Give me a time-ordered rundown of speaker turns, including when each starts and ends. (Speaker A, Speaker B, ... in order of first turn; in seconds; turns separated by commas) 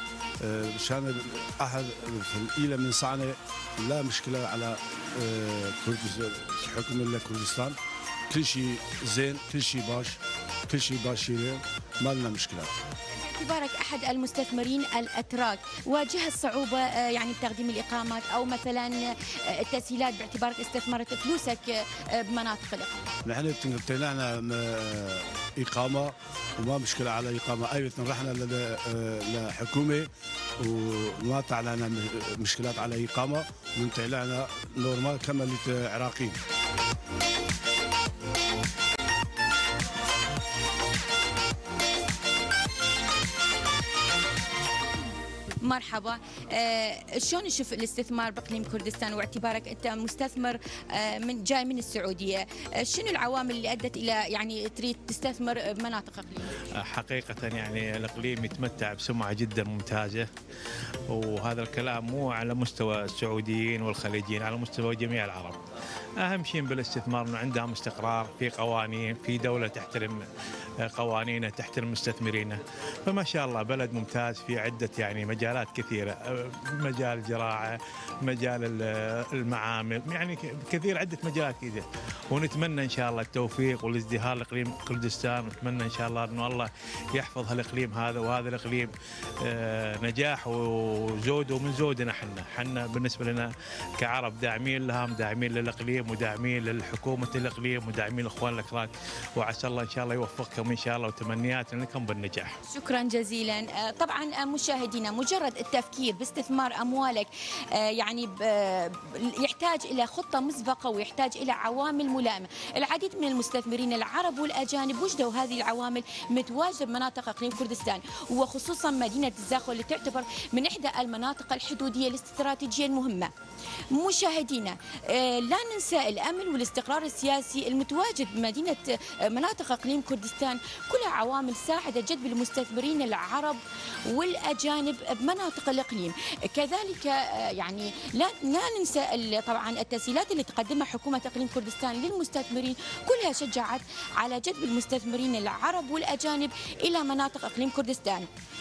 Speaker A: 0.4-7.8, Speaker A: 8.3-10.2, Speaker A: 10.7-12.8, Speaker B: 13.2-23.1, Speaker A: 23.2-30.1, Speaker A: 30.6-36.4, Speaker B: 45.6-56.6, Speaker C: 56.8-60.3, Speaker C: 61.1-65.6, Speaker C: 66.2-70.2, Speaker C: 70.8-102.5, Speaker B: 102.7-123.3, Speaker B: 123.9-148.3